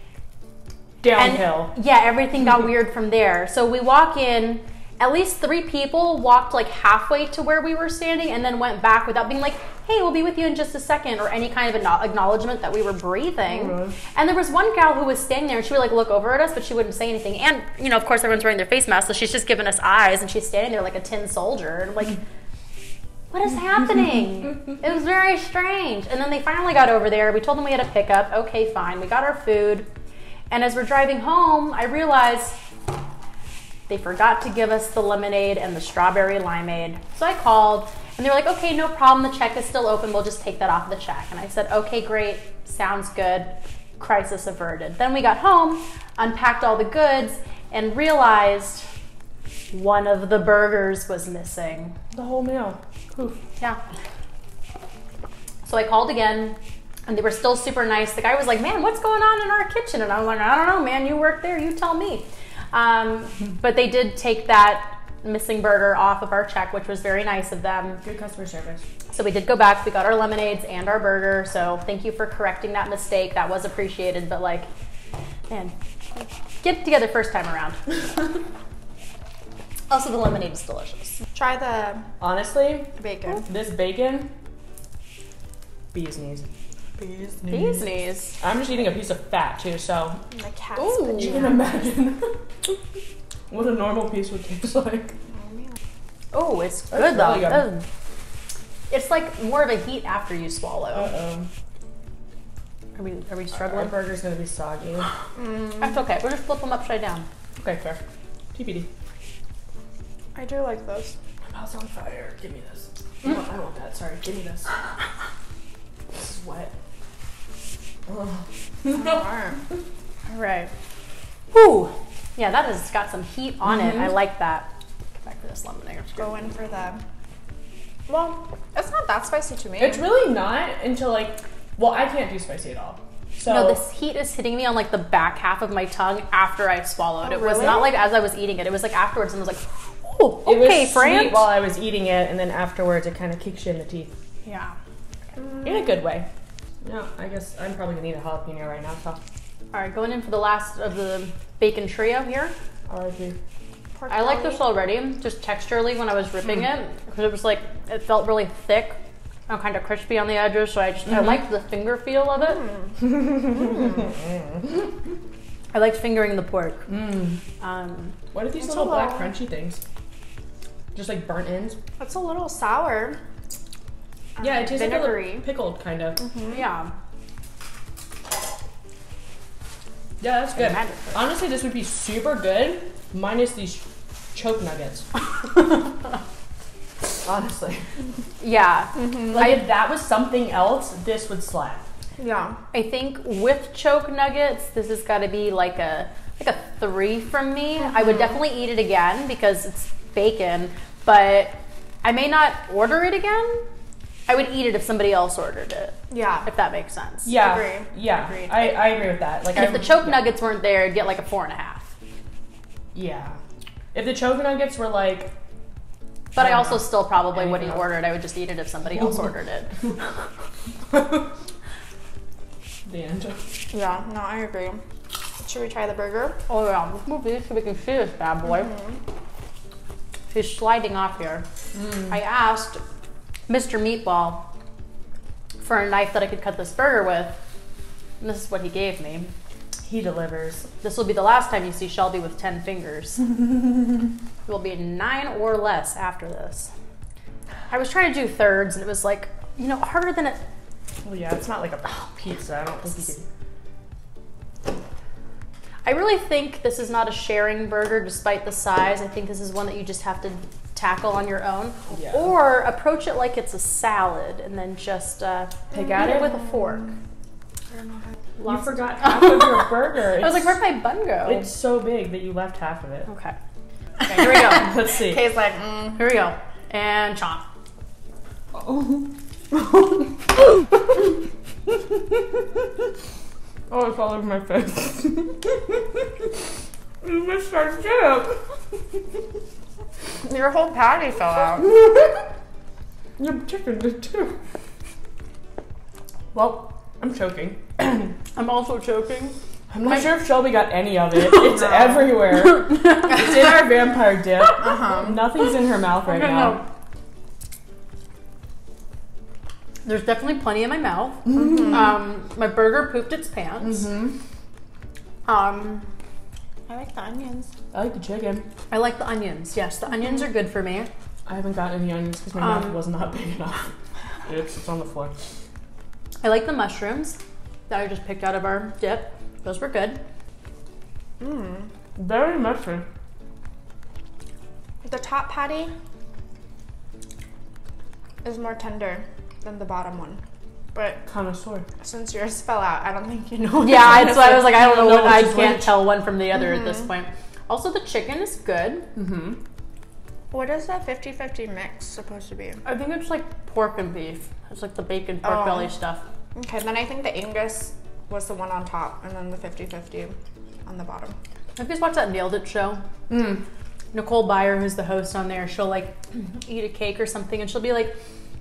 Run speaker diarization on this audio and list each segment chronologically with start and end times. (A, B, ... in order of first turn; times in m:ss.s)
0:01.0-0:01.7 A
0:01.2-0:22.2 B
0:13.5-0:14.0 A
0:23.3-0:29.9 B
0:30.5-0:32.6 B
0:33.9-0:48.9 B
0:49.7-0:52.0 B
0:52.1-0:53.4 A
0:55.6-1:08.0 B
1:08.0-1:08.8 A
1:09.1-1:14.7 B
1:15.5-1:17.8 B
1:19.9-1:21.2 B
1:21.3-1:22.0 C
1:22.2-1:24.3 A
1:23.0-1:23.5 C
1:25.9-1:26.5 A
1:27.0-1:27.8 C
1:27.5-1:28.4 B
1:28.4-1:30.2 A
1:30.3-1:31.8 C
1:30.8-1:31.5 B
1:31.1-1:32.7 A
1:33.5-1:35.2 A
1:35.4-1:35.7 C
1:36.3-1:37.9 B
1:36.9-1:37.7 A
1:38.9-1:41.1 B
1:40.9-1:41.5 A
1:43.0-1:43.9 B
1:43.6-1:45.1 A
1:45.4-1:45.9 C
1:45.8-1:47.3 B
1:47.6-1:48.0 A
1:48.5-1:48.9 A
1:50.4-1:51.2 C
1:51.5-1:54.7 A
1:56.1-1:56.7 A
1:58.1-1:59.2 A
1:58.9-1:59.6 C
2:00.3-2:00.7 B
2:01.5-2:04.7 B
2:03.6-2:04.2 A
2:05.2-2:06.3 B
2:06.2-2:07.0 C
2:08.1-2:10.0 C
2:09.8-2:13.8 A
2:13.5-2:21.5 B
2:17.2-2:18.0 C
2:20.4-2:24.2 A
2:24.4-2:24.8 B
2:25.4-2:25.8 C
2:25.6-2:26.3 A
2:26.8-2:29.2 A
2:29.7-2:32.5 B
2:32.9-2:33.4 A
2:34.0-2:34.6 C
2:34.1-2:42.7 B
2:41.1-2:41.4 A
2:42.5-2:44.0 C
2:45.7-2:46.9 B
2:46.9-2:47.4 A
2:47.6-2:48.2 B
2:48.3-2:49.8 A
2:48.6-2:49.3 C
2:50.9-2:51.8 A
2:52.0-2:53.2 C
2:54.4-2:55.5 C
2:54.4-2:56.2 A
2:56.2-2:56.6 C
2:56.5-2:56.9 B
3:00.2-3:05.1 A
3:00.5-3:01.3 B
3:07.2-3:07.9 A
3:08.4-3:09.6 B
3:09.0-3:09.3 C
3:09.3-3:11.8 A
3:12.2-3:12.6 C
3:12.7-3:23.6 B
3:24.3-3:27.4 B
3:26.1-3:26.5 C
3:27.2-3:30.2 A
3:27.4-3:27.9 C
3:28.3-3:28.8 B
3:29.5-3:31.9 B
3:32.9-3:33.4 A
3:33.9-3:35.3 A
3:36.4-3:37.9 A
3:36.4-3:40.2 B
3:40.9-3:41.2 A
3:42.9-3:43.5 A
3:43.7-3:44.8 C
3:45.4-3:46.4 C
3:46.5-3:48.7 B
3:48.6-3:49.0 C
3:50.3-3:51.5 B
3:51.7-3:52.1 A
3:52.1-3:52.8 B
3:53.5-3:54.5 B
3:55.6-3:57.4 B
3:58.2-3:59.3 B
3:59.8-4:00.7 A
4:00.8-4:03.2 B
4:04.5-4:06.7 B
4:07.7-4:10.4 B
4:11.0-4:13.3 A
4:15.8-4:26.9 B
4:21.9-4:22.3 A
4:25.8-4:26.2 A
4:26.0-4:26.9 C
4:27.7-4:28.0 C
4:28.4-4:31.5 B
4:28.4-4:30.6 A
4:31.2-4:33.1 A
4:33.1-4:33.4 B
4:34.0-4:36.1 C
4:34.0-4:34.8 B
4:34.2-4:35.3 A
4:36.0-4:37.5 B
4:38.5-4:39.1 A
4:43.7-4:46.3 A
4:47.0-4:48.4 A
4:50.2-4:51.8 C
4:51.7-4:52.1 A
4:53.2-4:54.4 A
4:56.3-4:58.2 A
4:58.4-4:59.4 B
4:59.7-5:06.6 A
5:02.4-5:03.2 B
5:04.6-5:05.2 C
5:06.0-5:06.7 B
5:09.8-5:13.9 B
5:11.4-5:11.7 C
5:13.6-5:14.2 A
5:15.3-5:15.9 B
5:16.7-5:17.5 C
5:17.7-5:18.5 A
5:18.7-5:20.9 B
5:21.3-5:23.7 A
5:22.4-5:22.8 B
5:24.2-5:25.2 A
5:26.2-5:30.0 B
5:31.2-5:31.7 C
5:32.0-5:32.8 A
5:34.8-5:35.7 C
5:38.2-5:40.2 C
5:40.7-5:41.0 C
5:41.1-5:41.6 A
5:41.8-5:44.2 C
5:43.6-5:48.9 B
5:43.8-5:45.8 A
5:49.0-5:49.4 A
5:50.3-5:52.6 C
5:52.6-5:56.0 B
5:55.2-5:55.7 C
5:56.4-6:00.1 C
6:00.6-6:01.2 C
6:01.6-6:02.8 B
6:03.1-6:03.4 A
6:03.9-6:08.0 B